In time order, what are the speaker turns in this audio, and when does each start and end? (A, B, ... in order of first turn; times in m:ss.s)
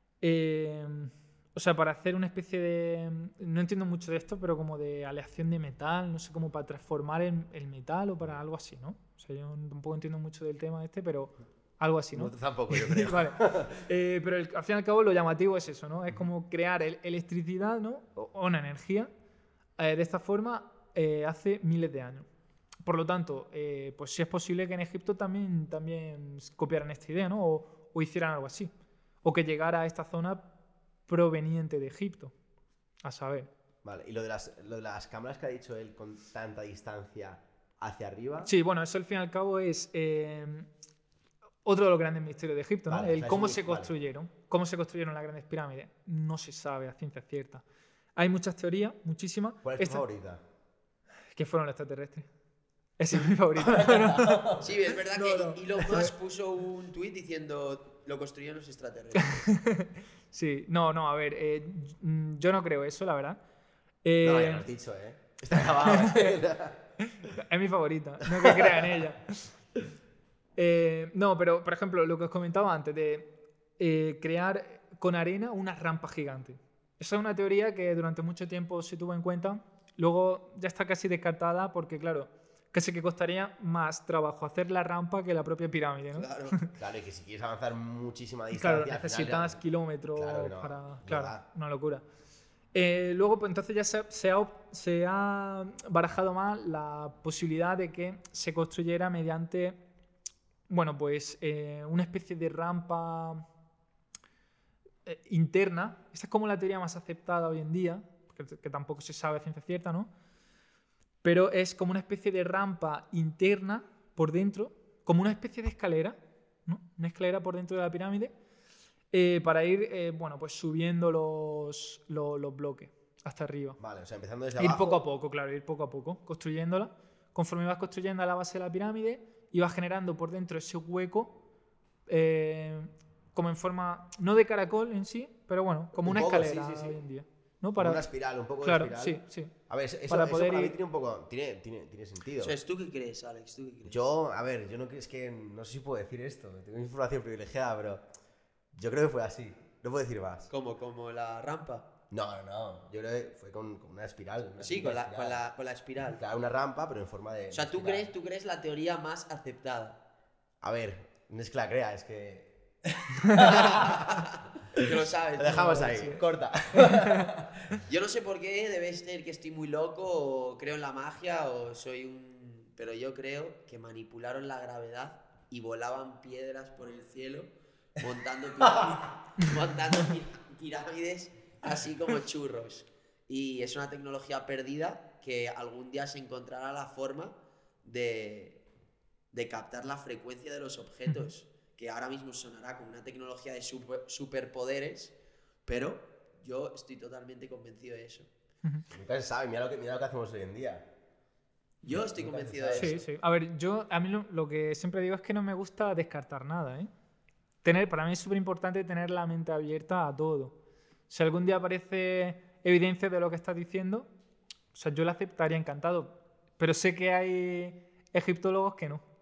0:00.2-0:19.1 A
0:12.2-0:13.9 B
0:19.8-0:22.3 A
0:22.8-0:28.7 A
0:29.2-0:30.5 A
0:31.1-0:32.3 A
0:33.0-0:33.5 A
0:33.8-0:38.5 B
0:38.4-0:40.7 A
0:41.6-0:47.6 A
0:42.9-0:43.9 B
0:48.2-0:50.0 A
0:49.6-0:50.4 B
0:51.3-0:52.3 A
0:53.0-0:56.1 A
0:53.6-0:54.7 B
0:54.6-0:59.5 C
0:59.3-1:03.4 A
1:04.0-1:04.7 A
1:04.2-1:06.8 B
1:05.6-1:06.4 A
1:07.0-1:09.5 A
1:08.2-1:08.9 B
1:10.6-1:26.7 A
1:26.1-1:26.6 C
1:26.8-1:29.6 B
1:28.5-1:32.0 A
1:30.2-1:31.4 B
1:32.7-1:39.8 A
1:40.7-1:43.5 A
1:45.1-1:50.1 A
1:51.2-1:58.3 A
1:59.1-2:03.8 A
2:03.8-2:05.0 B
2:04.6-2:11.4 A
2:12.1-2:18.1 A
2:16.0-2:17.0 B
2:17.8-2:22.6 B
2:18.6-2:19.5 A
2:20.1-2:20.8 A
2:22.4-2:24.0 C
2:23.9-2:28.1 B
2:28.7-2:30.5 B
2:30.5-2:31.9 C
2:32.1-2:35.4 B
2:34.6-2:36.2 C
2:36.1-2:38.1 B
2:37.5-2:40.0 C
2:40.6-2:47.8 B
2:43.4-2:46.1 C
2:45.5-2:47.3 A
2:47.9-3:08.6 C
2:58.6-2:59.0 B
3:09.3-3:15.1 C
3:15.7-3:18.3 C
3:18.9-3:20.9 B
3:21.8-3:23.0 C
3:21.9-3:23.0 B
3:22.8-3:26.9 A
3:27.6-3:30.6 A
3:31.1-3:34.1 A
3:34.7-3:39.0 A